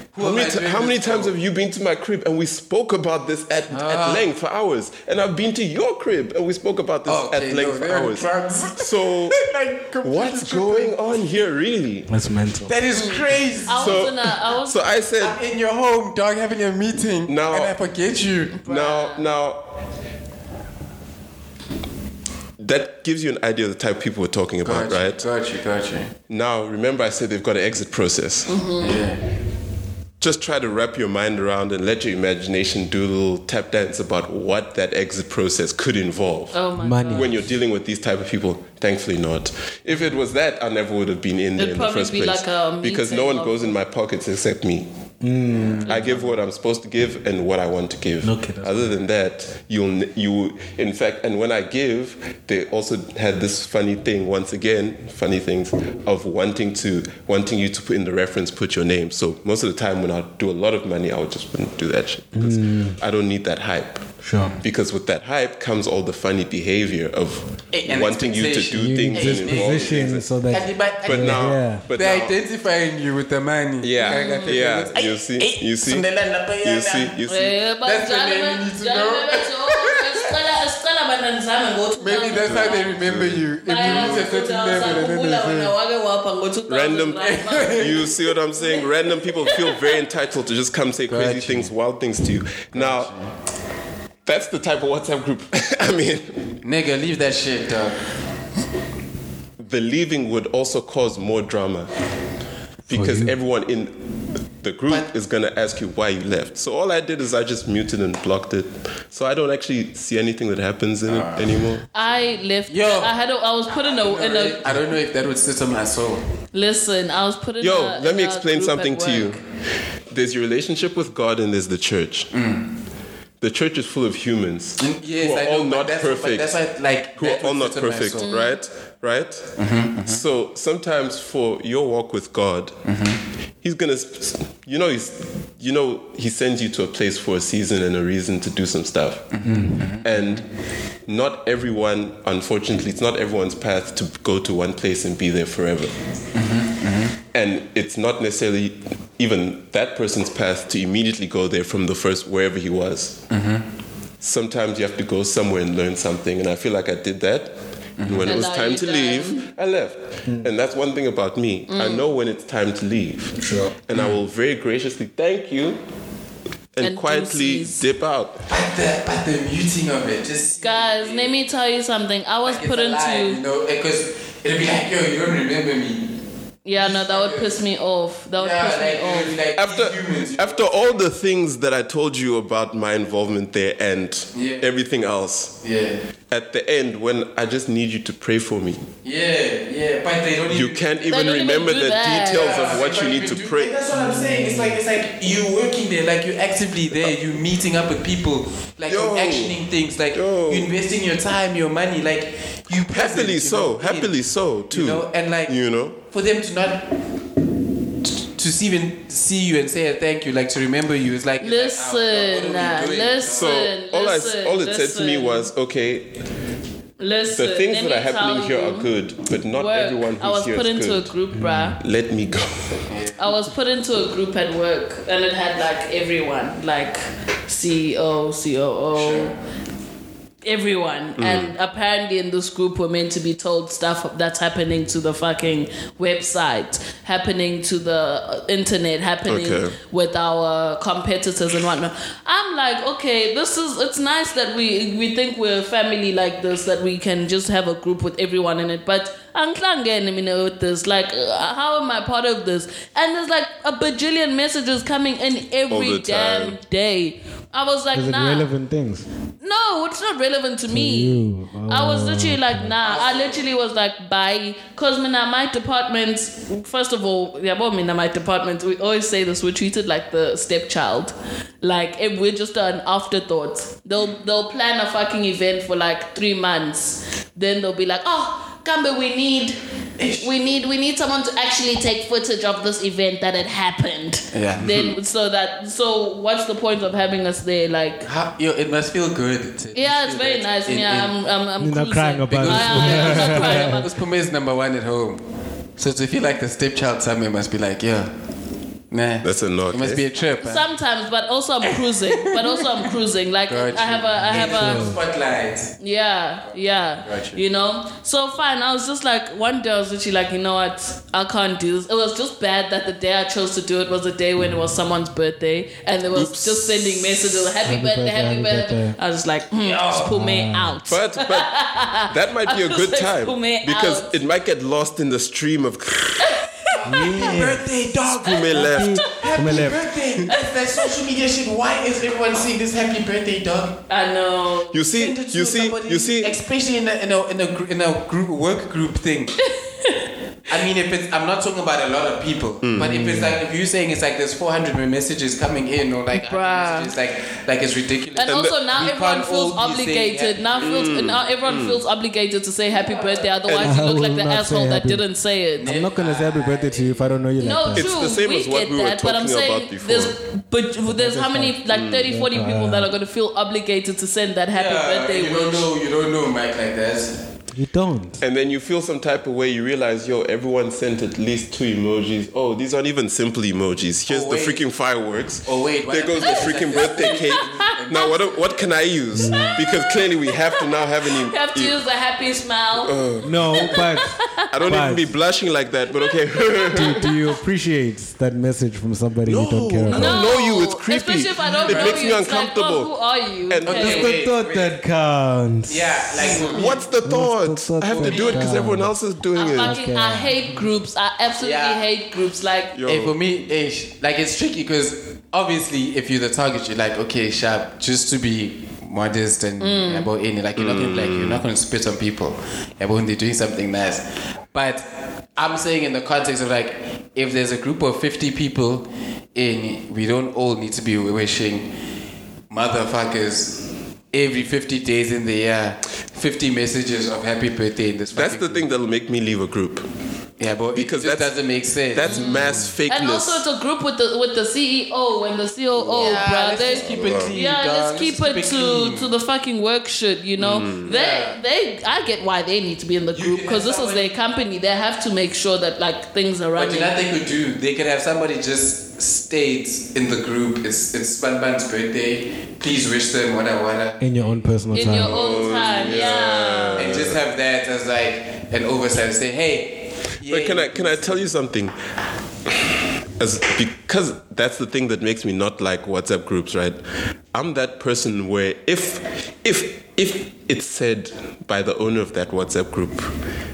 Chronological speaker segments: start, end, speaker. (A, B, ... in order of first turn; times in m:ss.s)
0:00.1-0:01.3 A
0:00.2-0:09.4 B
0:03.7-0:04.3 A
0:07.0-0:11.0 A
0:10.0-0:12.1 B
0:12.1-0:12.7 C
0:12.6-0:14.1 A
0:12.9-0:14.8 D
0:13.7-0:15.4 B
0:15.2-0:18.6 A
0:17.3-0:17.7 B
0:18.6-0:19.2 D
0:18.6-0:19.8 B
0:22.6-0:25.2 B
0:24.6-0:26.1 A
0:26.3-0:28.6 B
0:28.5-0:29.0 D
0:28.8-0:29.2 A
0:30.2-0:36.6 B
0:36.5-0:37.3 D
0:36.8-0:37.4 C
0:37.1-0:44.9 B
0:41.6-0:43.7 D
0:45.2-0:46.0 C
0:45.6-0:46.2 A
0:45.8-1:04.1 B
0:48.2-0:48.9 C
1:02.3-1:03.0 C
1:04.2-1:04.6 C
1:04.6-1:10.3 B
1:07.7-1:17.1 A
1:08.8-1:11.8 C
1:11.0-1:12.3 B
1:13.8-1:16.0 B
1:14.0-1:14.6 D
1:16.6-1:17.6 B
1:17.3-1:22.9 D
1:17.8-1:20.1 A
1:22.0-1:25.7 A
1:22.4-1:24.2 B
1:23.6-1:28.1 D
1:26.7-1:33.1 B
1:27.2-1:28.1 A
1:29.4-1:29.7 D
1:31.1-1:31.7 A
1:32.7-1:33.3 A
1:34.2-1:36.6 B
1:36.6-1:38.1 A
1:39.6-1:41.9 B
1:42.8-1:44.0 B
1:42.9-1:43.3 C
1:44.6-1:51.8 B
1:51.0-1:51.6 A
1:51.9-1:54.6 D
1:52.7-1:53.1 A
1:53.7-1:56.2 A
1:56.5-1:59.4 D
1:57.6-1:59.4 B
2:00.1-2:02.3 B
2:02.3-2:02.7 A
2:03.4-2:06.6 B
2:04.8-2:08.3 A
2:07.2-2:12.8 B
2:08.2-2:08.5 D
2:09.6-2:10.2 A
2:12.8-2:13.2 A
2:13.6-2:19.4 B
2:19.3-2:20.3 A
2:19.4-2:19.8 C
2:20.0-2:20.5 B
2:21.0-2:25.9 B
2:26.3-2:27.2 A
2:27.3-2:33.2 B
2:33.3-2:33.6 A
2:34.2-2:45.8 B
2:38.0-2:38.4 A
2:38.2-2:39.4 D
2:41.7-2:42.0 D
2:43.4-2:43.7 C
2:46.7-2:48.4 B
2:46.8-2:47.8 D
2:48.5-2:51.4 A
2:50.6-2:53.4 D
2:52.4-2:56.1 A
2:56.6-2:59.4 D
2:56.7-2:57.6 A
2:58.4-3:00.6 A
2:59.6-3:05.6 B
3:04.3-3:04.7 A
3:05.6-3:06.0 A
3:06.3-3:08.9 B
3:09.0-3:10.9 A
3:10.5-3:13.8 B
3:11.1-3:12.7 D
3:12.3-3:24.2 A
3:13.9-3:14.8 C
3:18.9-3:19.6 B
3:20.1-3:20.7 B
3:22.9-3:26.0 B
3:24.7-3:26.9 A
3:28.0-3:33.5 A
3:31.4-3:35.5 D
3:33.3-3:36.2 B
3:37.0-3:38.9 D
3:37.3-3:41.1 B
3:39.5-3:41.8 D
3:41.3-3:41.8 C
3:41.8-3:42.8 B
3:42.9-3:43.3 A
3:43.2-3:49.3 D
3:48.9-3:49.4 A
3:50.4-4:18.5 D
3:51.2-3:51.5 B
3:59.2-3:59.8 B
4:15.7-4:16.6 B
4:17.9-4:19.0 C
4:19.4-4:39.6 D
4:20.7-4:22.7 C
4:22.8-4:23.4 A
4:40.0-4:40.3 A
4:40.2-4:48.1 D
4:44.3-4:44.7 A
4:44.5-4:44.9 B
4:48.0-4:51.2 A
4:49.7-4:53.9 D
4:51.6-4:53.8 C
4:52.3-4:55.2 A
4:55.8-4:58.1 A
4:58.9-5:00.7 A
4:59.2-5:00.0 B
5:00.4-5:04.9 D
5:01.6-5:02.9 A
5:03.5-5:05.8 A
5:04.3-5:05.0 C
5:05.8-5:24.1 D
5:06.5-5:07.4 A
5:16.1-5:17.4 B
5:17.6-5:19.0 C
5:19.6-5:20.1 A
5:19.9-5:20.8 C
5:20.8-5:21.5 B
5:22.1-5:26.4 B
5:26.2-5:27.1 D
5:26.7-5:28.6 A
5:26.8-5:27.7 C
5:28.0-5:29.0 B
5:28.5-5:29.9 C
5:29.1-5:33.8 A
5:30.3-5:30.9 D
5:33.9-5:34.8 D
5:34.7-5:36.3 B
5:34.9-5:39.4 A
5:39.4-5:40.0 D
5:40.5-5:51.1 A
5:42.6-5:43.0 B
5:42.8-5:43.4 C
5:46.1-5:46.9 D
5:48.1-5:55.7 D
5:48.2-5:48.6 B
5:50.6-5:51.8 B
5:52.7-5:53.3 A
5:53.5-5:53.8 B
5:53.6-5:55.0 C
5:55.6-5:57.2 A
5:55.6-5:57.9 C
5:57.4-6:05.7 D
5:57.7-6:00.1 B
6:00.9-6:02.9 C
6:01.7-6:02.1 B
6:04.5-6:07.2 A
6:07.5-6:08.2 C
6:08.2-6:21.8 B
6:14.1-6:14.6 A
6:15.4-6:18.7 A
6:17.5-6:18.2 D
6:19.1-6:19.5 C
6:19.3-6:22.9 D
6:22.8-6:23.8 B
6:23.2-6:25.1 C
6:23.6-6:24.5 D
6:24.5-6:27.0 B
6:25.9-6:27.3 D
6:26.7-6:30.3 C
6:29.2-6:32.9 B
6:29.9-6:34.1 D
6:31.4-6:32.1 A
6:33.5-6:34.0 B
6:33.6-6:34.8 A
6:33.7-6:38.9 C
6:35.7-6:36.8 A
6:36.3-6:36.6 D
6:36.5-6:39.8 B
6:38.0-6:38.6 A
6:39.3-6:42.7 D
6:39.6-6:40.4 C
6:41.4-6:41.8 A
6:42.7-6:43.2 B
6:42.8-7:01.7 A
6:49.6-6:50.1 D
6:50.6-6:51.4 B
7:02.5-7:08.6 A
7:08.1-7:09.8 B
7:10.4-7:12.7 A
7:10.7-7:13.4 B
7:12.0-7:26.9 D
7:15.8-7:19.1 A
7:15.9-7:17.4 B
7:20.4-7:20.9 B
7:20.8-7:21.4 A
7:23.1-7:24.1 A
7:26.6-7:34.1 A
7:34.0-7:35.2 C
7:34.7-7:37.0 D
7:34.8-7:37.2 B
7:35.7-7:36.1 A
7:36.8-7:41.2 A
7:40.3-7:41.8 B
7:43.2-7:46.8 B
7:47.3-7:53.1 B